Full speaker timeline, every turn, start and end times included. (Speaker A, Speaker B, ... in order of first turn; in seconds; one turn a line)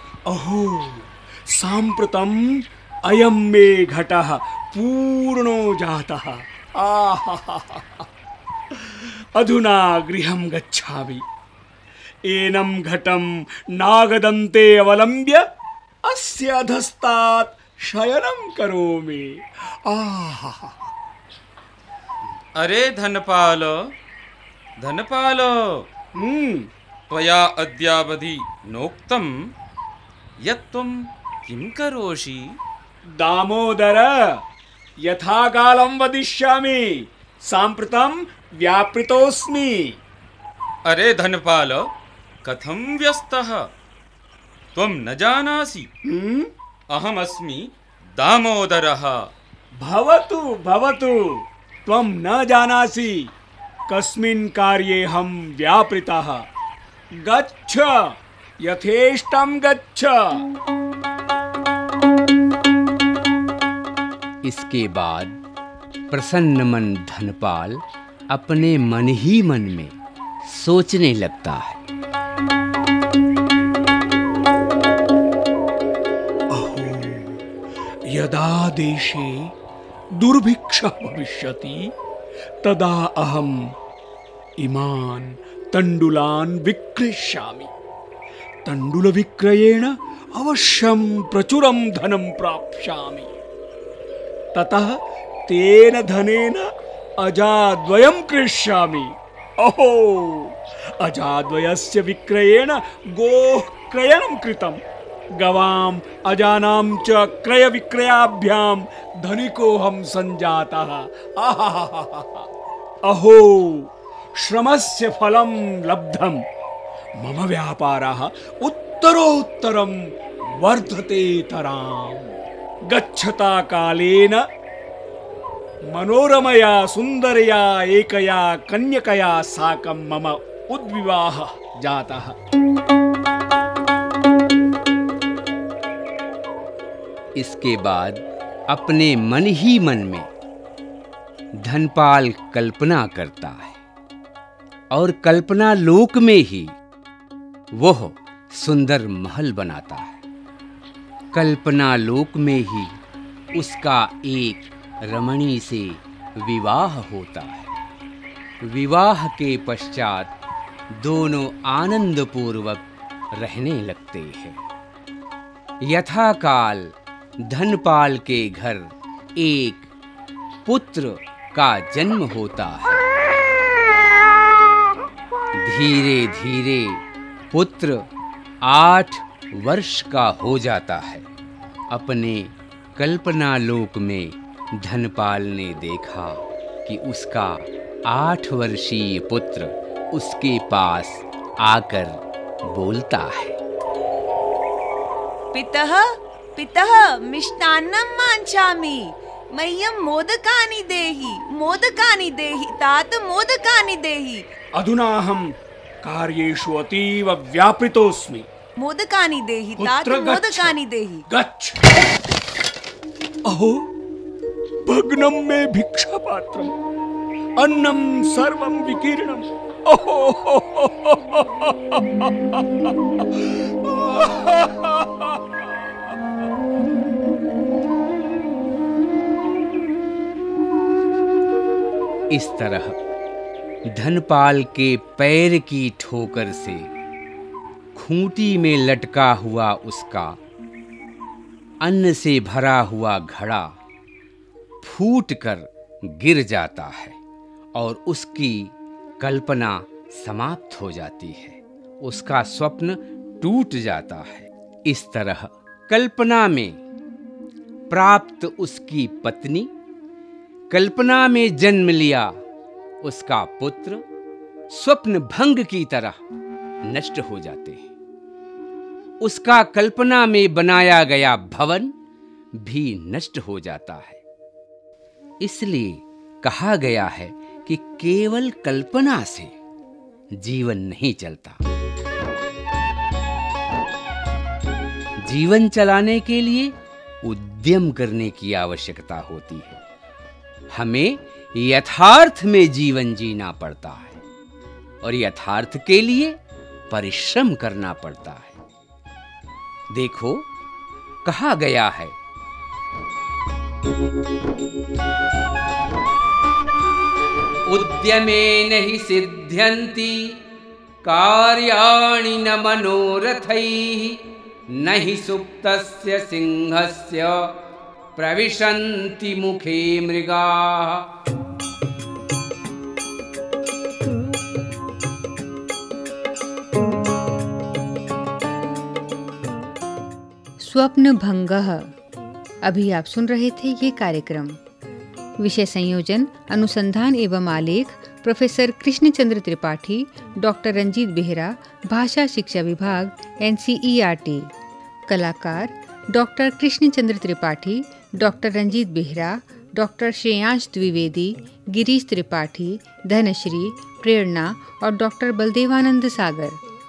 Speaker A: 0.2-8.0
Speaker A: 8.7-11.2
Speaker A: 12.3-15.4
Speaker A: 16.1-20.9
Speaker B: 22.6-23.7
Speaker B: 24.8-25.9
Speaker A: 26.2-26.7
Speaker B: 27.1-29.4
Speaker B: 30.4-32.6
Speaker A: 33.1-34.1
Speaker A: 35.0-40.0
Speaker B: 40.9-41.9
Speaker B: 42.4-43.6
Speaker B: 44.7-45.9
Speaker A: 46.1-46.5
Speaker B: 46.9-49.3
Speaker A: 49.8-51.2
Speaker A: 51.8-53.3
Speaker A: 53.9-56.4
Speaker A: 57.2-57.9
Speaker A: 58.6-60.4
Speaker C: 64.4-65.4
Speaker C: 66.1-69.9
Speaker C: 70.5-71.8
Speaker A: 76.5-77.4
Speaker A: 78.1-79.3
Speaker A: 80.2-81.9
Speaker A: 82.6-83.6
Speaker A: 84.6-87.7
Speaker A: 88.7-93.3
Speaker A: 94.5-94.9
Speaker A: 95.5-96.7
Speaker A: 97.2-104.8
Speaker A: 105.4-112.5
Speaker A: 113.0-116.4
Speaker A: 117.2-120.0
Speaker A: 120.6-122.3
Speaker A: 122.9-124.4
Speaker A: 125.9-132.3
Speaker C: 137.3-140.3
Speaker C: 141.6-143.8
Speaker C: 144.9-146.7
Speaker C: 147.8-150.2
Speaker C: 151.3-152.9
Speaker C: 153.6-157.7
Speaker C: 158.6-160.3
Speaker C: 161.0-162.8
Speaker C: 163.4-164.6
Speaker C: 165.8-166.9
Speaker C: 167.5-169.9
Speaker C: 170.6-173.0
Speaker C: 175.6-177.0
Speaker C: 177.5-178.0
Speaker C: 178.6-181.2
Speaker C: 181.9-193.6
Speaker D: 195.5-196.0
Speaker D: 196.6-204.4
Speaker A: 204.8-205.5
Speaker A: 206.0-208.4
Speaker D: 208.8-211.2
Speaker A: 209.8-210.8
Speaker A: 211.3-211.8
Speaker A: 213.5-213.8
Speaker A: 214.8-216.7
Speaker A: 217.6-225.5
Speaker C: 232.3-232.9
Speaker C: 233.9-236.9
Speaker C: 237.9-240.3
Speaker C: 241.8-243.7
Speaker C: 244.8-247.2
Speaker C: 247.8-256.8
Speaker C: 257.9-259.7
Speaker C: 260.7-262.3
Speaker C: 263.0-264.0
Speaker C: 264.7-266.2
Speaker C: 266.9-267.8
Speaker C: 269.2-271.9
Speaker C: 272.6-274.2
Speaker C: 275.4-279.5
Speaker C: 280.4-281.6
Speaker C: 285.2-286.7
Speaker C: 287.2-289.8
Speaker C: 290.7-294.2
Speaker C: 295.0-296.4
Speaker C: 296.9-298.6
Speaker C: 299.9-300.4
Speaker C: 301.2-302.1
Speaker C: 307.7-310.2
Speaker C: 311.0-314.2
Speaker C: 314.8-317.4
Speaker C: 318.1-321.1
Speaker E: 330.6-331.9
Speaker E: 332.6-334.6
Speaker E: 335.4-344.5
Speaker E: 345.1-356.6